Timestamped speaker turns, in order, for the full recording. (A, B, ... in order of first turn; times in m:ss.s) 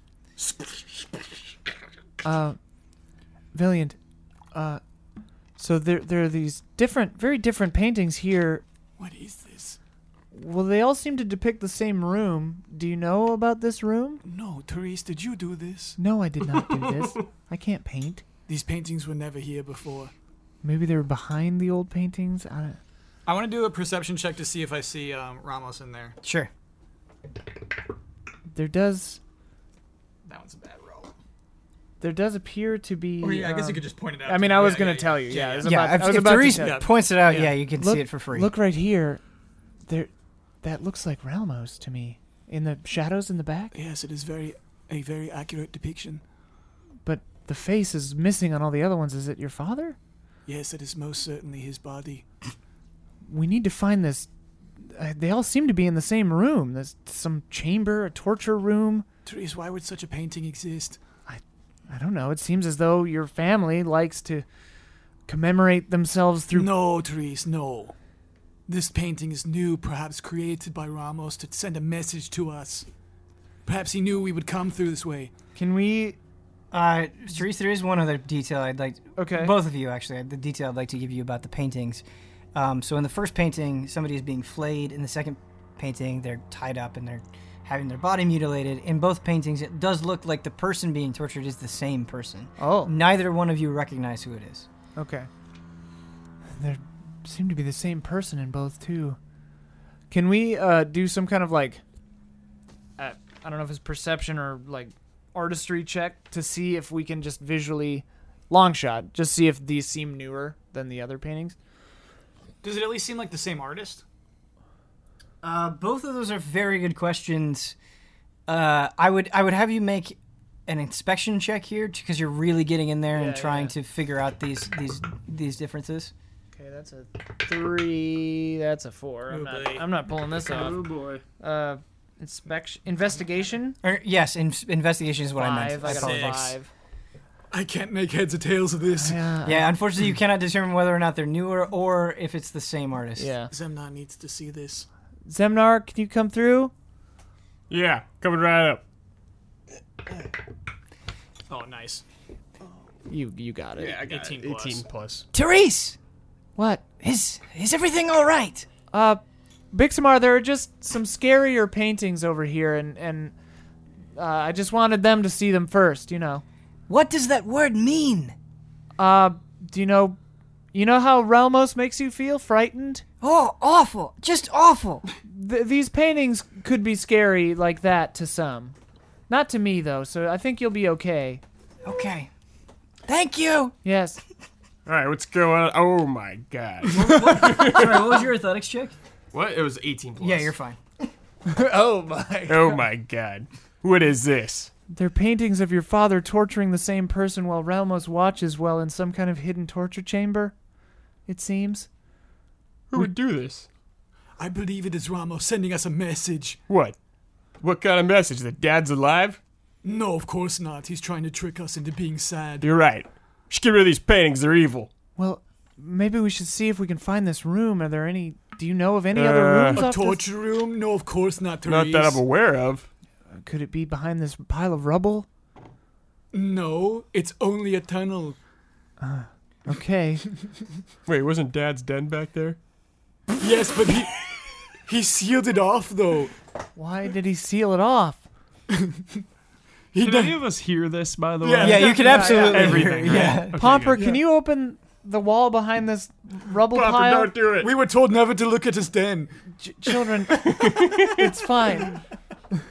0:00.4-0:01.2 A
0:02.2-0:02.6 B
0:03.5-0:04.0 B
0:04.5-0:04.8 B
0:05.6-0:08.6 B
0:09.0-0:09.8 A
0:10.3-0:14.2 B
0:14.2-0:16.0 A
0:16.0-0:18.2 B
0:18.5-0:20.1 A
0:20.6-0:22.8 B
0:23.3-0:26.2 A
0:26.2-0:26.5 C
0:28.5-0:29.2 B
0:30.2-0:31.1 A
0:32.0-0:39.2 B
0:33.2-0:35.8 A
0:35.6-0:38.5 C
0:36.5-0:37.4 A
0:40.6-0:43.7 B
0:43.7-0:46.2 A
0:47.0-0:50.0 B
0:50.5-0:52.2 A
0:53.2-0:54.3 B
0:54.8-0:59.0 B
0:59.2-1:01.0 A
1:01.3-1:04.5 B
1:05.3-1:06.7 B
1:06.5-1:08.0 A
1:08.7-1:12.9 A
1:13.6-1:15.3 A
1:15.6-1:16.2 B
1:16.7-1:22.0 C
1:19.2-1:19.6 B
1:22.6-1:34.7 C
1:32.6-1:32.9 B
1:35.0-1:35.3 B
1:36.5-1:39.2 B
1:40.1-1:41.8 B
1:43.0-1:51.6 B
1:52.6-1:54.0 A
1:55.4-1:57.8 C
1:58.5-2:06.1 C
2:03.1-2:03.7 B
2:06.5-2:10.8 B
2:09.3-2:09.9 A
2:10.5-2:11.2 D
2:11.4-2:13.8 B
2:13.8-2:16.5 C
2:15.4-2:16.7 B
2:15.9-2:16.5 A
2:17.5-2:19.2 A
2:19.0-2:19.7 B
2:19.4-2:23.3 C
2:23.2-2:23.5 B
2:23.5-2:24.9 A
2:25.3-2:26.7 B
2:27.7-2:28.8 D
2:31.5-2:32.0 A
2:33.1-2:34.0 B
2:33.8-2:34.8 A
2:33.8-2:35.3 D
2:35.3-2:36.0 C
2:36.6-2:36.9 B
2:37.0-2:38.7 C
2:38.9-2:39.2 B
2:39.7-2:43.3 B
2:44.2-2:46.4 B
2:46.9-2:48.4 C
2:49.0-2:50.2 B
2:50.7-2:53.0 B
2:53.2-2:55.0 C
2:55.2-2:58.8 B
2:59.3-3:01.4 B
3:01.8-3:02.3 C
3:03.1-3:03.8 C
3:03.8-3:04.2 B
3:04.9-3:08.2 D
3:06.9-3:08.9 C
3:09.3-3:10.5 D
3:10.2-3:10.8 C
3:11.5-3:12.8 B
3:12.5-3:14.7 D
3:14.9-3:20.6 B
3:21.3-3:21.9 B
3:22.9-3:23.7 D
3:24.4-3:26.6 A
3:26.7-3:27.0 D
3:27.6-3:29.4 D
3:29.8-3:32.7 A
3:32.6-3:34.9 D
3:35.2-3:40.3 B
3:39.1-3:39.8 D
3:39.7-3:42.2 A
3:41.6-3:42.9 D
3:43.4-3:45.3 B
3:46.3-3:48.4 A
3:49.0-3:50.2 B
3:51.1-3:52.6 D
3:53.4-3:56.3 A
3:56.8-3:58.2 B
3:58.7-3:59.2 A
3:59.9-4:00.5 A
4:00.0-4:04.0 E
4:01.4-4:03.4 A
4:01.6-4:03.6 C
4:02.0-4:07.3 B
4:03.9-4:04.2 A
4:06.7-4:07.7 D
4:07.6-4:09.3 A
4:09.6-4:12.0 B
4:10.6-4:11.1 D